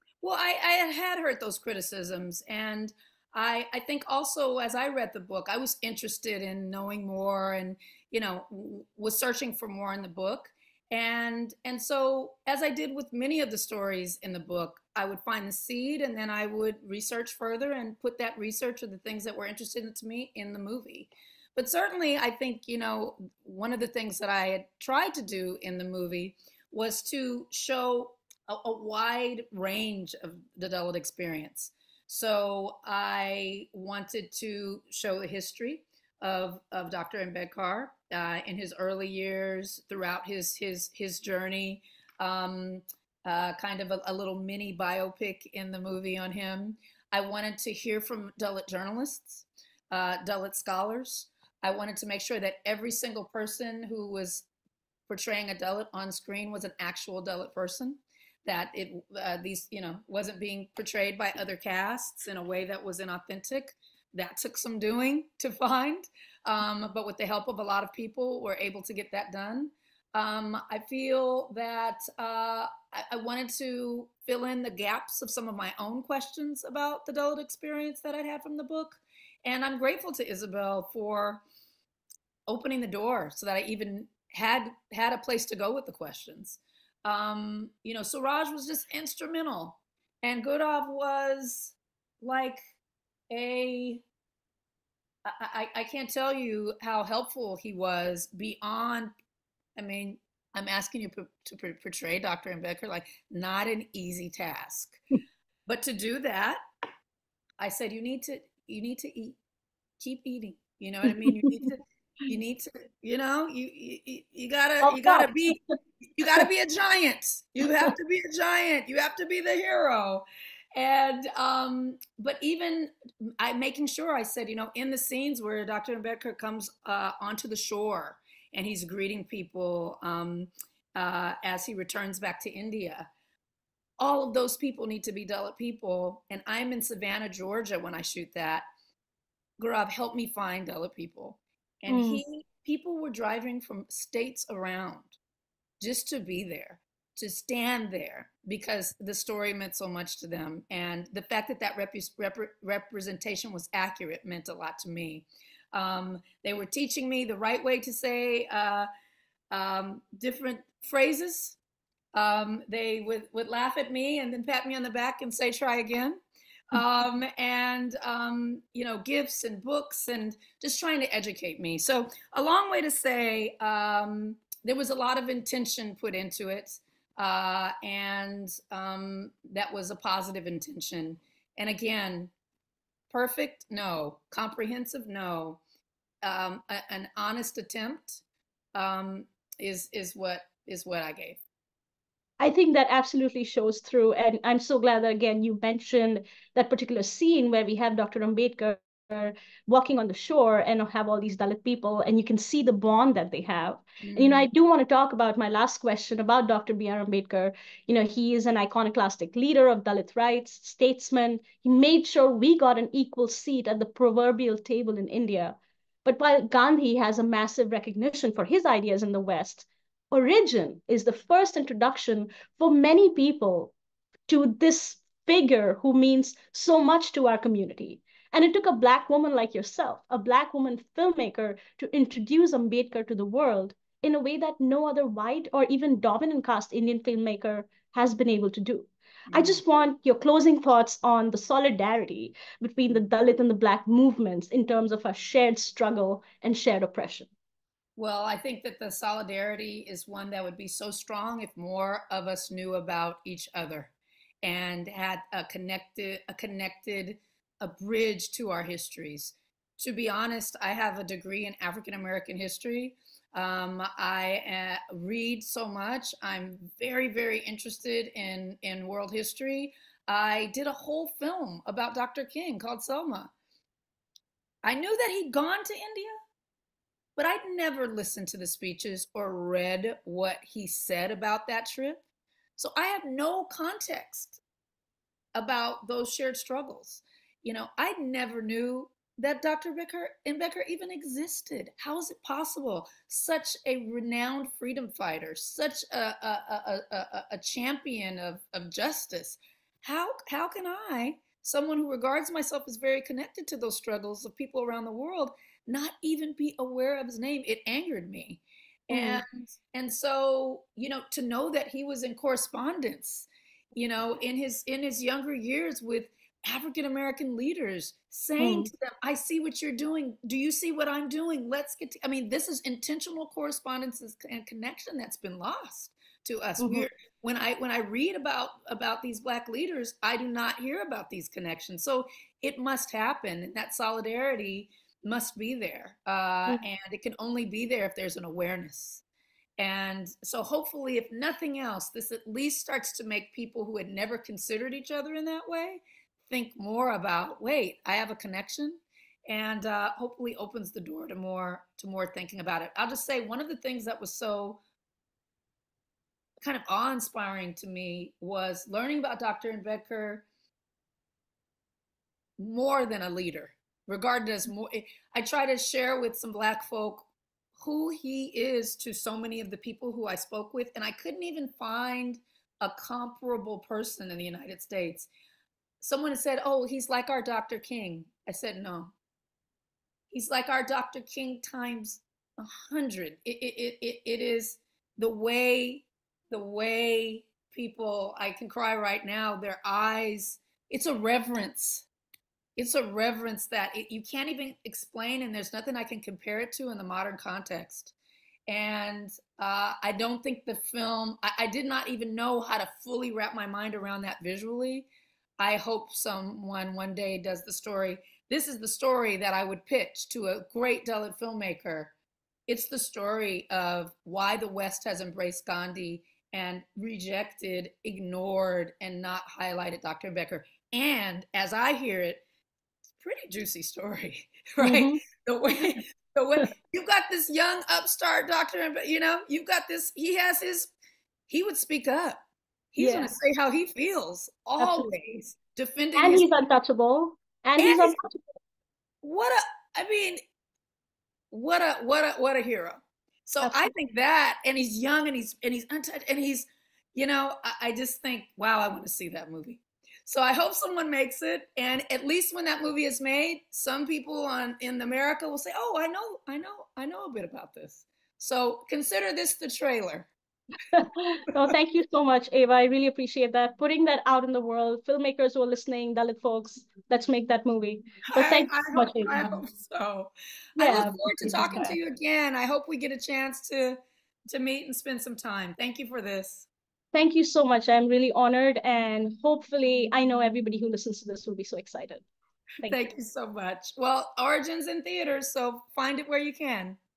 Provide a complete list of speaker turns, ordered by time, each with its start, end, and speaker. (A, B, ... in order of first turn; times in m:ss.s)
0:00.2-0:54.4 A
0:55.1-1:21.4 A
1:22.5-1:32.6 A
1:33.3-1:34.0 A
1:35.2-1:39.1 A
1:39.8-1:45.0 A
1:45.6-1:46.6 A
1:47.6-1:49.4 A
1:50.0-1:55.6 A
1:54.8-1:55.3 B
1:56.2-2:13.1 A
2:14.0-2:18.6 A
2:19.6-2:25.2 A
2:21.9-2:22.2 B
2:25.8-2:38.9 A
2:39.5-2:41.6 A
2:42.1-2:46.2 A
2:46.7-3:02.3 A
3:03.1-3:05.6 A
3:06.2-3:08.2 A
3:08.7-3:11.4 A
3:12.4-3:43.7 B
3:24.0-3:24.4 A
3:44.3-4:07.3 B
3:59.3-3:59.6 A
4:08.0-4:33.3 A
4:34.6-4:36.2 A
4:37.2-4:42.0 A
4:42.6-4:44.4 A
4:45.3-5:39.0 A
5:08.9-5:09.2 B
5:18.4-5:18.7 B
5:26.6-5:26.8 B
5:39.6-5:54.6 A
5:56.4-6:00.2 A
6:02.4-6:15.1 A
6:15.8-6:18.9 A
6:20.1-6:31.9 A
6:32.6-6:37.9 A
6:38.5-6:51.9 A
6:52.5-7:02.2 A
7:03.0-7:10.7 A
7:04.6-7:05.0 B
7:11.3-7:12.2 A
7:12.7-7:16.3 A
7:12.8-7:13.1 B
7:14.6-7:14.9 B
7:16.0-7:18.2 B
7:17.6-7:18.0 A
7:19.0-7:20.2 A
7:21.3-7:40.1 A
7:23.4-7:23.7 B
7:40.7-7:49.4 B
7:48.1-7:56.5 A
7:50.6-7:51.8 B
7:56.9-8:02.0 B
8:02.6-8:06.8 A